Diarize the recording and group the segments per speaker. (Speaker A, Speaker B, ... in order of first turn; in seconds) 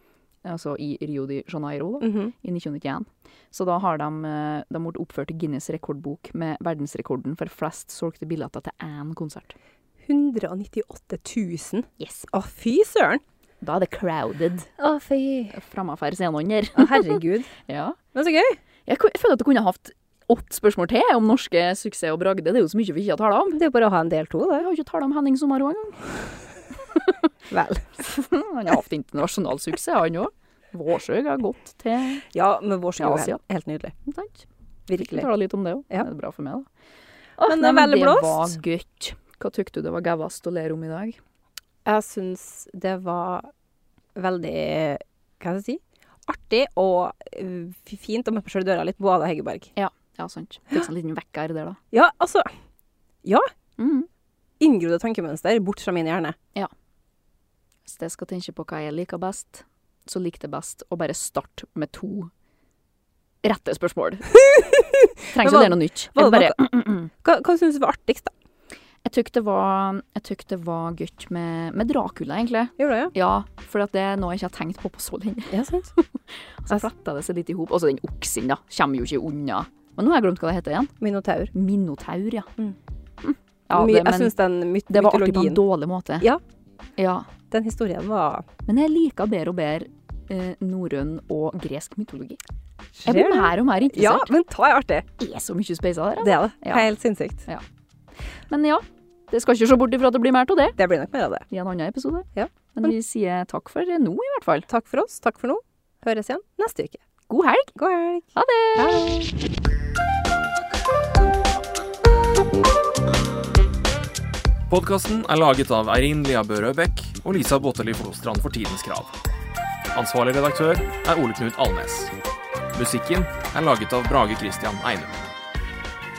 Speaker A: 0.4-9.6, 12.0-12.3, 13.6-14.7, 15.5-18.0, 18.9-23.6, 24.6-26.3, 26.9-27.2, 28.0-32.2, 33.0-33.4, 34.0-36.7, 37.4-41.2, 49.8-51.8, 53.8-54.1, 57.9-62.3, 63.4-64.3, 65.3-67.1, 69.0-80.9, 81.5-82.5, 83.2-84.3, 84.9-86.3, 87.0-87.3, 88.7-92.4, 93.0-94.3, 95.2-96.9, 98.5-100.8, 101.5-104.7, 107.3-107.7, 108.3-109.2
Speaker B: 2.0-2.3, 10.0-13.2, 14.8-15.6, 16.7-17.5, 18.1-18.6, 23.5-24.7, 27.5-27.9, 32.3-33.9, 34.9-35.3, 37.5-38.5, 41.8-43.5, 44.1-49.7, 51.9-52.5, 54.6-56.4, 64.4-68.3, 72.8-73.1, 75.5-75.9, 81.0-81.5, 83.7-85.6, 87.5-88.5, 93.0-95.1, 96.2-97.5, 100.8-101.5, 104.7-107.0, 107.8-109.3
Speaker C: 114.7-119.1, 119.9-122.1, 122.7-125.2